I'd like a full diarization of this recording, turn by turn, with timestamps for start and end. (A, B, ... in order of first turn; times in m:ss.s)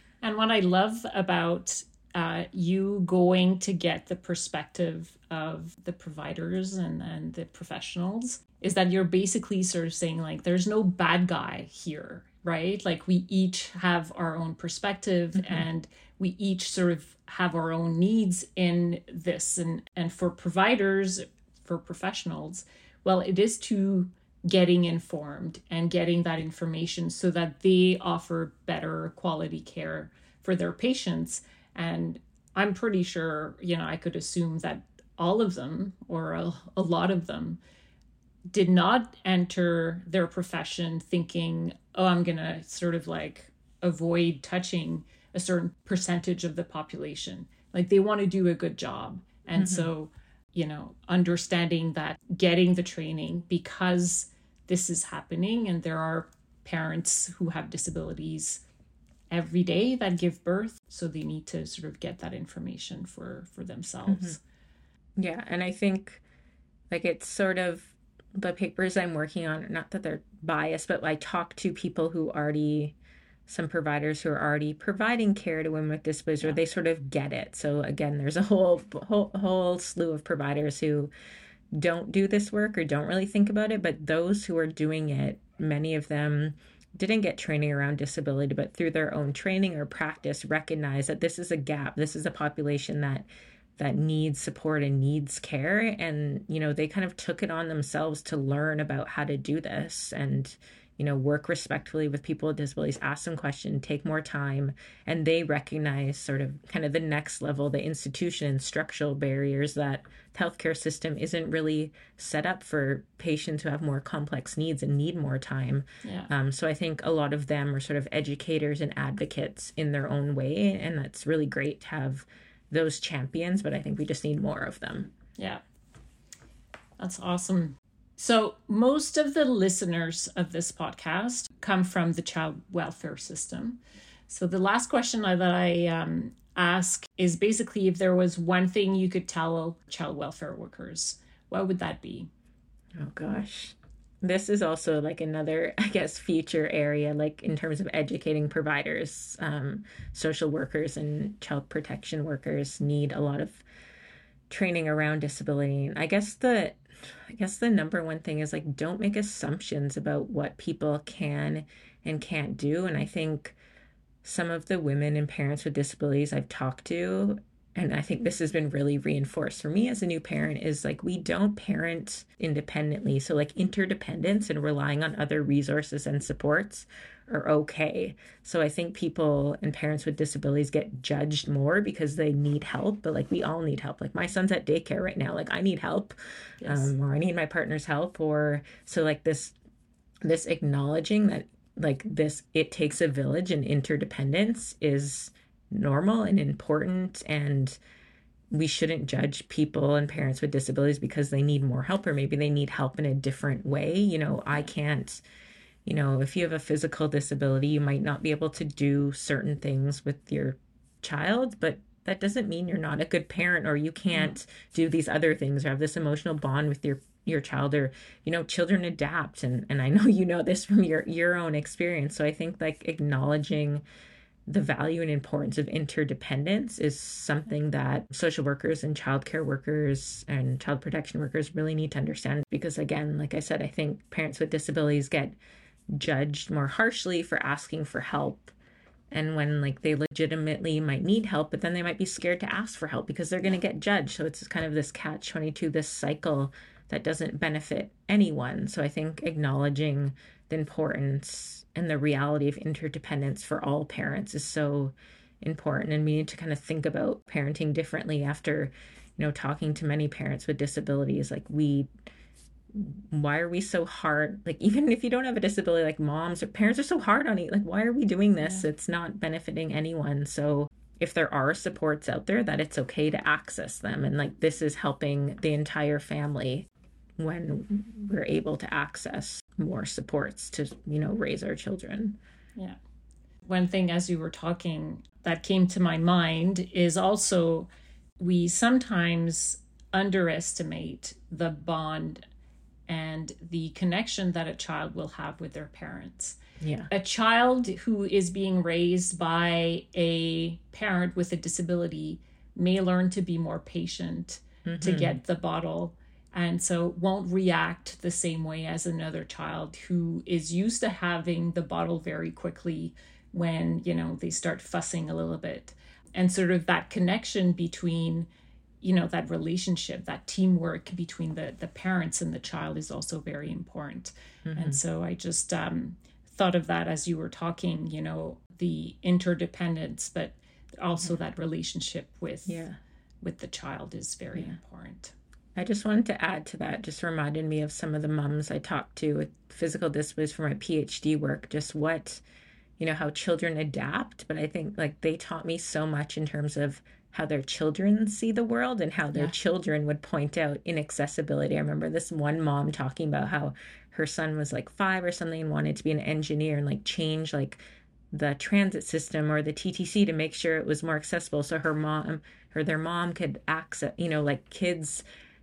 0:00.2-0:37.6 A
0:15.3-0:15.6 B
0:38.5-0:58.6 A
0:49.5-0:49.9 B
0:59.3-1:04.4 A
1:04.0-1:04.4 B
1:05.2-1:06.2 B
1:06.9-1:13.0 B
1:13.5-1:21.1 B
1:21.7-1:33.2 B
1:33.8-2:05.1 B
1:56.0-1:56.3 A
2:05.4-2:05.6 A
2:07.0-2:22.3 A
2:23.0-2:33.6 B
2:34.5-2:43.6 B
2:44.2-3:09.5 B
3:06.6-3:06.9 A
3:10.2-3:17.8 B
3:18.5-3:25.2 B
3:25.8-3:43.8 B
3:44.5-3:55.4 B
3:55.9-3:58.5 B
3:59.1-4:21.9 B
4:22.7-4:36.7 B
4:37.2-4:42.2 B
4:43.4-4:52.2 A
4:52.9-4:56.4 A
4:56.6-4:56.9 B
4:56.9-5:18.3 A
5:04.6-5:05.2 B
5:18.8-5:32.7 A
5:24.4-5:24.8 B
5:32.4-5:32.8 B
5:33.2-5:35.1 A
5:35.6-5:42.2 B
5:42.8-5:57.6 B
5:58.1-6:05.0 B